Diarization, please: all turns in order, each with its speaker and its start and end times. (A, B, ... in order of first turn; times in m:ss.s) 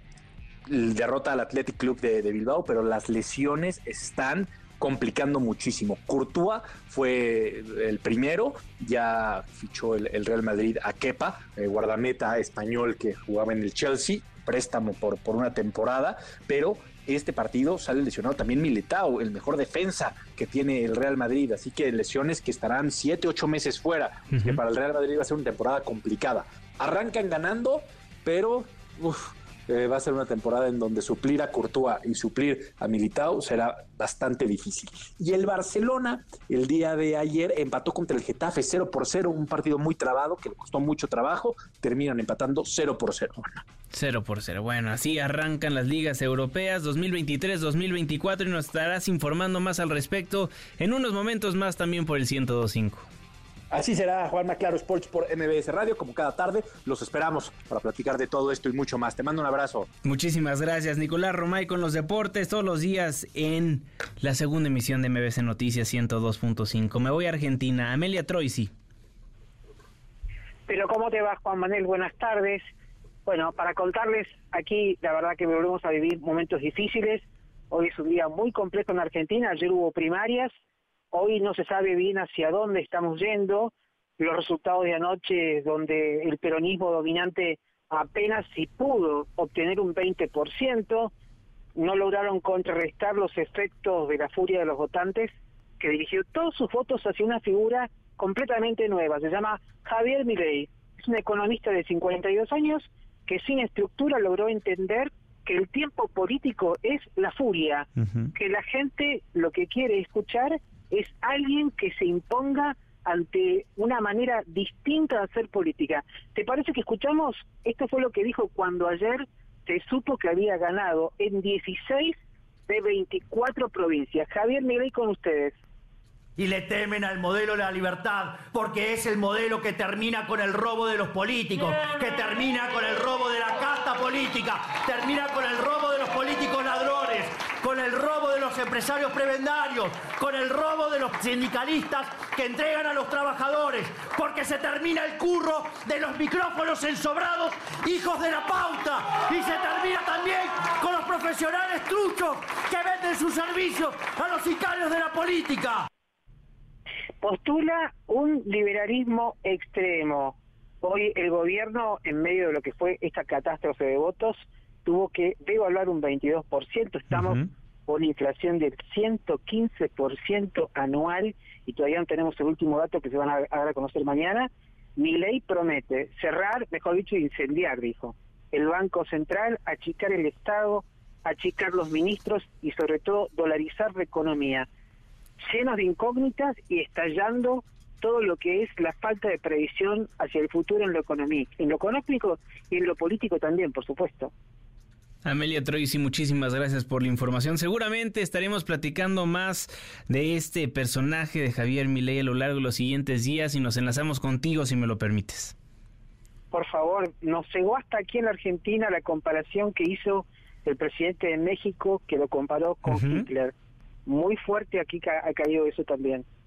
0:00.7-0:43.6 A
0:24.3-0:24.6 B
0:43.9-0:53.1 B
0:53.7-0:59.9 A
1:00.0-1:08.7 B
1:10.7-1:12.7 C
1:13.2-1:20.5 C
1:21.1-1:31.1 C
1:31.8-2:02.2 C
1:48.0-1:48.3 B
2:02.7-2:05.6 C
2:06.4-2:35.9 D
2:37.2-3:04.7 C
2:47.1-2:47.4 B
3:05.4-3:14.3 C
3:15.2-3:25.5 B
3:26.5-3:33.5 C
3:32.8-3:33.3 B
3:34.0-3:36.2 C